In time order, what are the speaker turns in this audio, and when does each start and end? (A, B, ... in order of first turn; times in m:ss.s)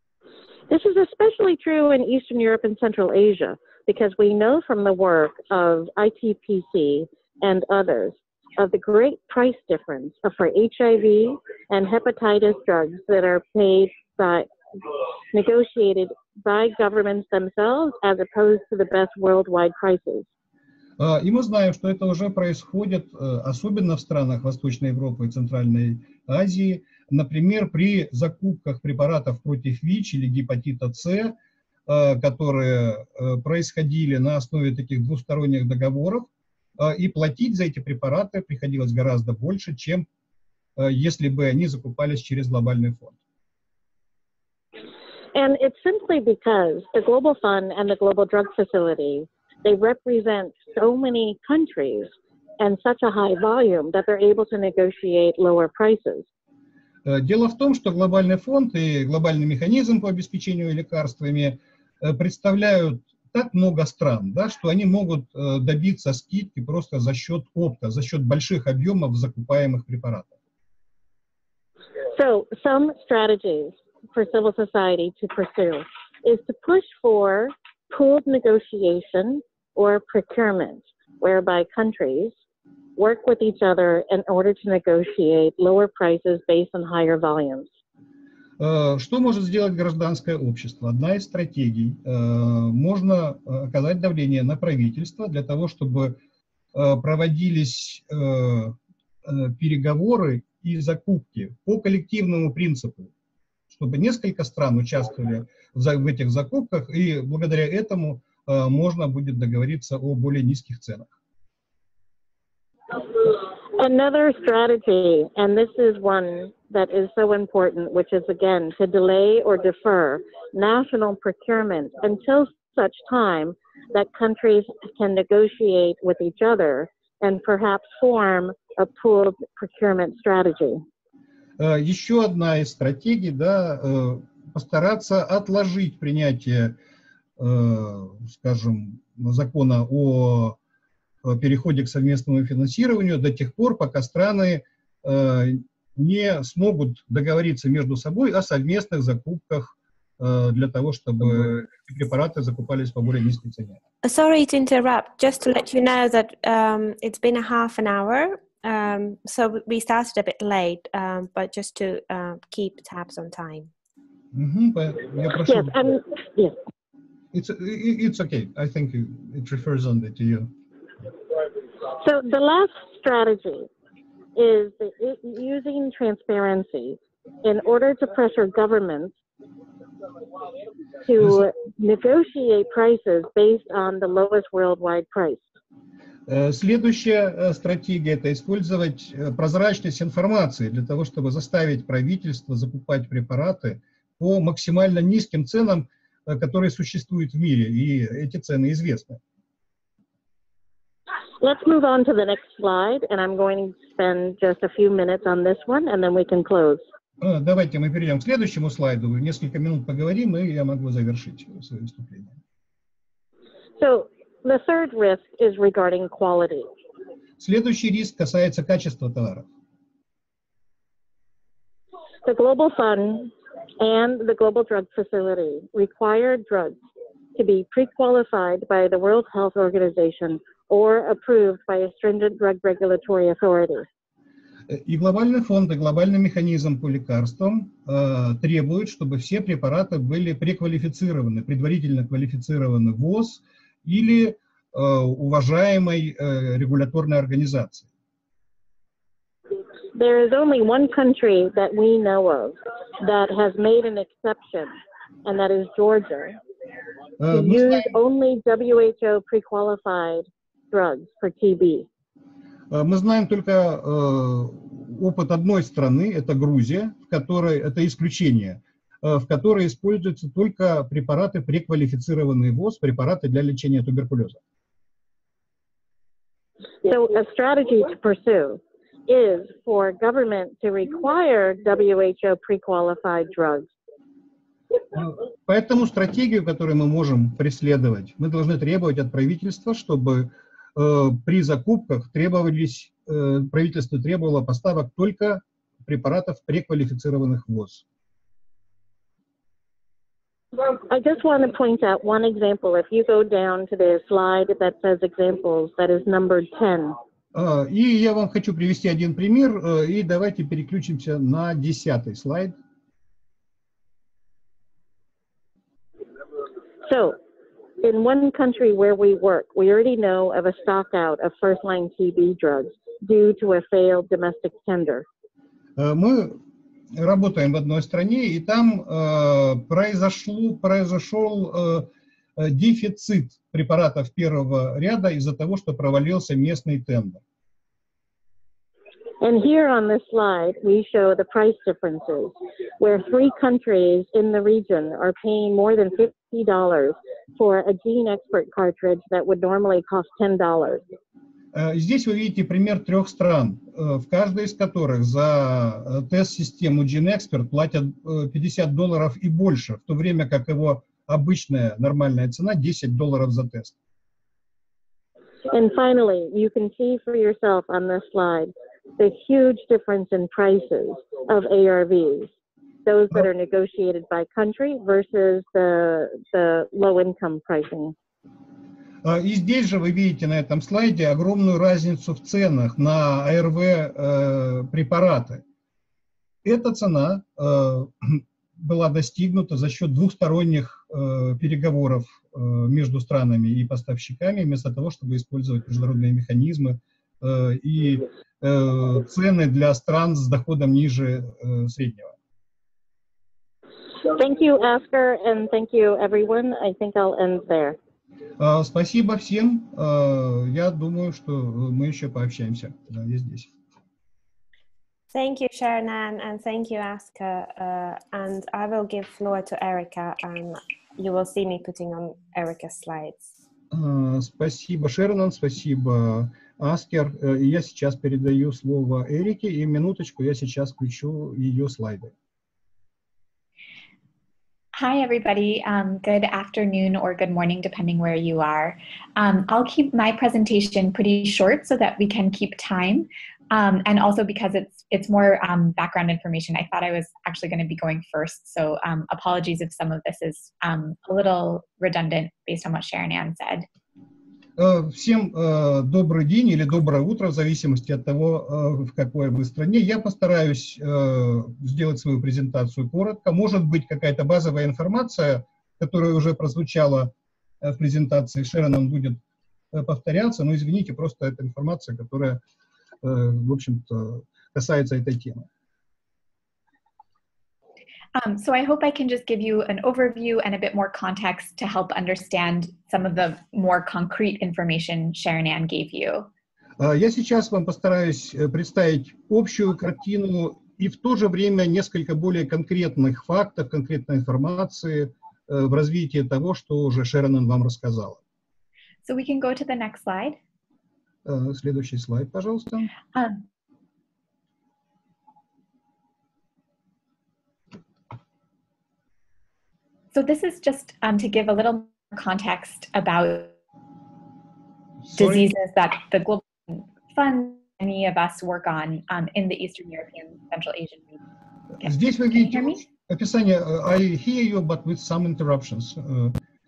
0:00.7-0:14.5 A
0:15.3-0:20.3 A
0:21.0-0:31.4 B
0:31.9-0:36.3 B
0:36.8-0:40.1 B
0:40.8-0:43.1 B
0:45.3-0:56.3 A
0:57.1-1:10.3 B
1:12.1-1:22.3 A
1:23.0-1:27.7 A
1:28.6-1:36.2 B
1:36.7-1:43.1 B
1:43.7-1:51.1 B
1:53.2-2:10.8 A
2:11.6-2:16.8 B
2:17.4-2:20.6 B
2:21.2-2:33.8 B
2:34.0-2:43.7 C
2:44.3-2:46.0 B
2:45.5-2:46.6 A
2:47.3-2:50.5 B
2:52.0-2:53.7 A
2:54.4-2:59.1 A
3:01.0-3:05.4 A
3:06.3-3:19.2 B
3:21.4-3:26.8 A
3:27.2-3:32.4 B
3:33.8-3:36.7 A
3:37.4-3:39.5 B
3:42.2-3:46.8 A
3:47.4-3:53.9 A
3:54.7-4:07.9 B
4:09.9-4:16.4 A
4:17.2-4:17.9 B
4:17.3-4:21.9 A
4:22.7-4:34.4 B
4:36.8-4:43.7 A
4:44.9-4:57.8 B
5:00.6-5:07.0 A
5:07.3-5:12.6 B
5:16.9-5:17.2 A
5:17.8-5:25.1 A
5:25.8-5:26.4 B
5:26.9-5:37.2 B
5:39.2-5:50.8 A
5:51.5-6:03.8 B
6:05.5-6:12.3 A
6:12.9-6:18.0 A
6:19.0-6:25.4 B
6:26.4-6:42.1 B
6:44.1-6:47.8 A
6:48.4-6:53.5 B
6:55.1-7:03.3 C
7:03.7-7:12.1 B
7:14.8-7:33.6 D
7:34.6-7:49.2 B
7:49.7-7:52.4 B
7:53.0-7:55.5 B
7:58.1-8:06.3 D
8:06.8-8:18.2 B
8:19.0-8:20.4 D
8:21.2-8:22.9 B
8:23.1-8:23.4 D
8:30.1-8:33.6 D
8:35.1-8:35.5 B
8:35.1-8:41.2 D
8:41.8-8:42.8 D
8:41.8-8:46.4 B